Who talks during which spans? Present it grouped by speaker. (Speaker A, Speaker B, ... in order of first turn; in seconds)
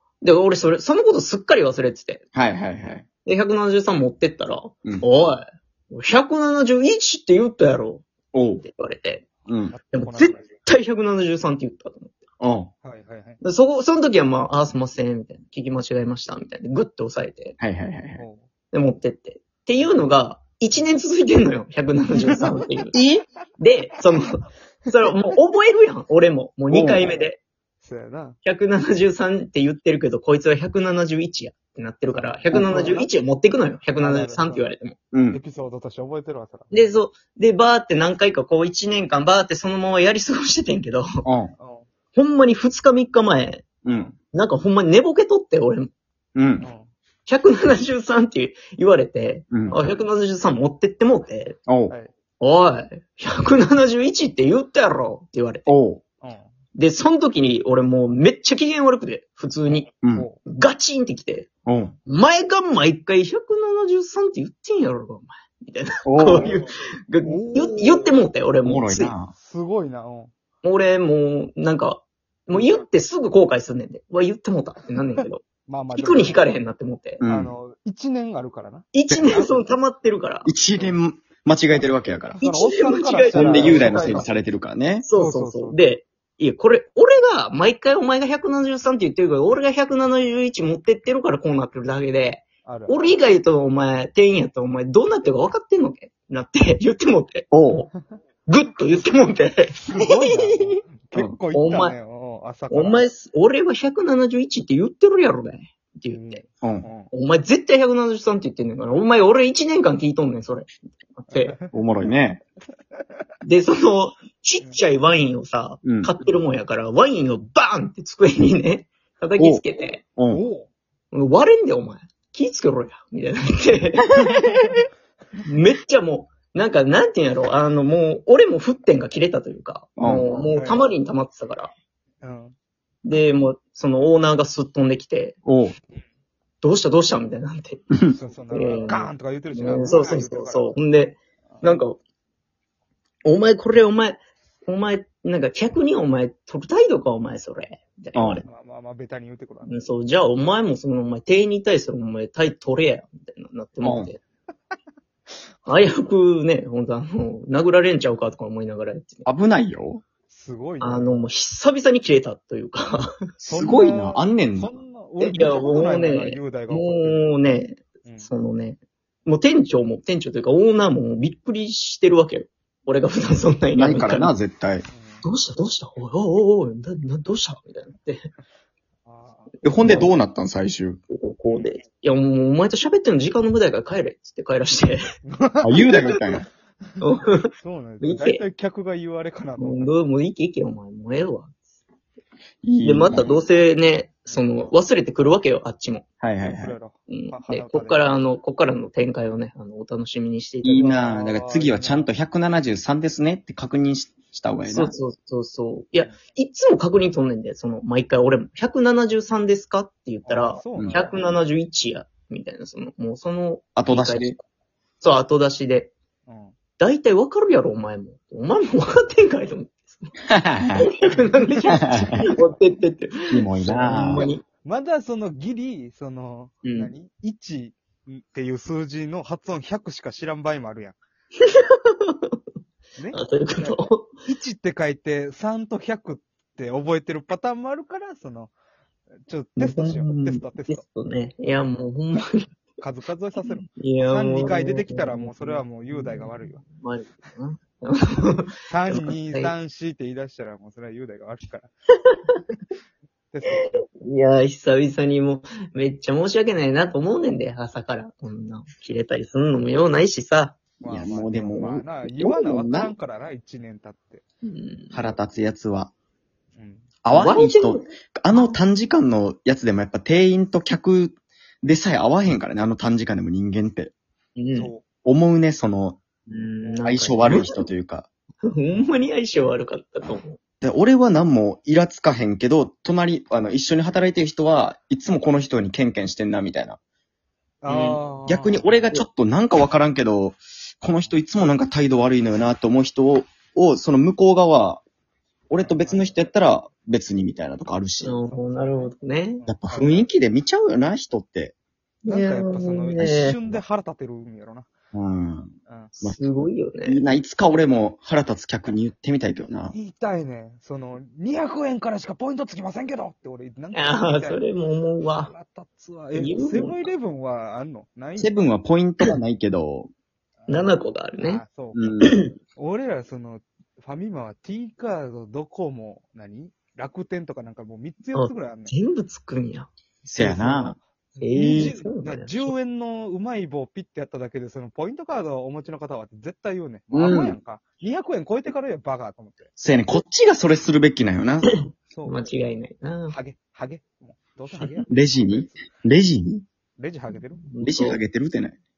Speaker A: 0.2-2.2, 3.2-8.1, 8.6-9.2, 9.9-12.2, 13.4-17.6, 18.7-23.0, 23.6-27.4, 28.4-35.0, 36.7-41.2, 42.1-43.7, 44.3-45.9, 47.3-51.6, 52.4-55.7, 56.8-59.9, 60.5-61.5, 62.1-69.1, 70.6-77.2, 78.9-80.5, 82.4-84.3, 85.0-97.7, 98.5-100.8, 101.5-102.0, 102.7-106.4, 107.1-111.6, 113.4-120.0, 121.1-124.8, 125.4-131.7, 133.1-135.4, 136.6-137.9, 138.5-142.0, 143.3-148.5, 149.6-154.2, 155.7-159.3, 160.8-163.2, 165.2-174.3, 175.2-178.2, 179.8-180.1, 181.1-185.0, 187.0-188.4, 189.6-191.6, 192.8-196.0, 197.1-201.0, 204.7-214.4, 215.0-215.9, 216.8-220.1, 220.8-224.4, 226.6-226.9, 231.4-232.4, 233.1-234.1, 239.6-242.5, 243.4-249.5, 252.1-252.4, 253.6-260.6, 264.4-265.1, 267.1-268.6, 274.4-274.7, 276.3-277.6, 278.4-280.4, 287.7-288.0, 298.0-299.4, 302.1-303.4, 306.0-307.0, 313.7-315.3, 316.1-316.9, 320.5-321.4, 322.0-322.3, 328.1-329.7, 331.2-332.5, 342.0-343.2, 347.1-348.0
Speaker B: 2.3-3.0, 8.3-8.6, 9.5-9.7, 12.4-12.7, 17.6-18.2, 22.9-23.2, 26.7-27.1, 35.1-35.4, 41.2-41.5, 43.9-44.1, 46.4-46.7, 51.7-51.9, 55.7-56.0, 61.7-61.9, 66.0-66.5, 68.6-69.3, 77.2-77.5, 79.1-79.4, 80.5-82.4, 83.3-85.1, 97.5-97.9, 111.7-112.4, 115.8-116.1, 119.4-119.6, 120.2-120.4, 130.0-130.3, 135.4-135.8, 148.2-148.4, 153.8-154.1, 159.3-160.0, 163.4-164.7, 173.8-174.9, 179.6-181.0, 185.6-186.5, 192.6-193.3, 196.2-196.8, 200.6-204.9, 210.7-211.0, 213.8-214.3, 220.3-220.9, 221.7-222.3, 223.3-224.3, 260.9-262.9, 264.9-265.9, 267.0-273.9, 275.0-276.0, 276.8-278.1, 280.6-286.8, 288.3-294.8, 295.5-298.2, 299.5-301.6, 303.0-303.6, 304.9-306.3, 306.9-309.8, 318.2-319.9, 321.7-322.2, 330.1-330.8, 331.4-331.7, 336.9-337.4, 339.6-341.5, 344.9-346.4, 347.6-348.6
Speaker C: 9.7-10.5, 12.8-13.4, 18.2-18.5, 27.8-28.4, 32.1-33.1, 34.0-34.7, 35.3-36.7, 41.6-41.9, 43.9-44.1, 46.6-46.9, 49.7-49.9, 56.2-56.5, 60.1-60.4, 66.3-66.7, 67.2-68.2, 69.3-70.3, 72.5-72.8, 75.2-76.5, 77.2-79.7, 80.7-81.0, 81.7-84.4, 85.1-85.8, 92.6-93.0, 99.8-103.0, 106.1-107.1, 111.3-111.7, 120.3-120.7, 130.5-130.9, 132.2-132.6, 138.1-140.8, 141.5-141.8, 148.4-149.8, 160.3-161.3, 163.5-167.3, 168.1-168.3, 174.9-175.2, 179.1-179.6, 185.2-186.2, 187.6-189.9, 194.3-194.7, 196.4-198.1, 200.8-202.1, 210.2-211.2, 216.3-216.6, 221.1-222.4, 224.2-231.0, 233.0-238.5, 239.3-240.8, 242.8-246.6, 248.7-251.7, 253.3-253.8, 260.8-264.2, 266.6-266.9, 274.5-274.8, 278.7-279.0, 287.6-288.9, 295.6-296.1, 298.3-300.1, 302.1-304.7, 305.7-305.9, 309.7-314.4, 315.2-318.3, 320.4-328.7, 330.2-339.5, 341.9-342.3, 343.1-345.7, 346.8-347.4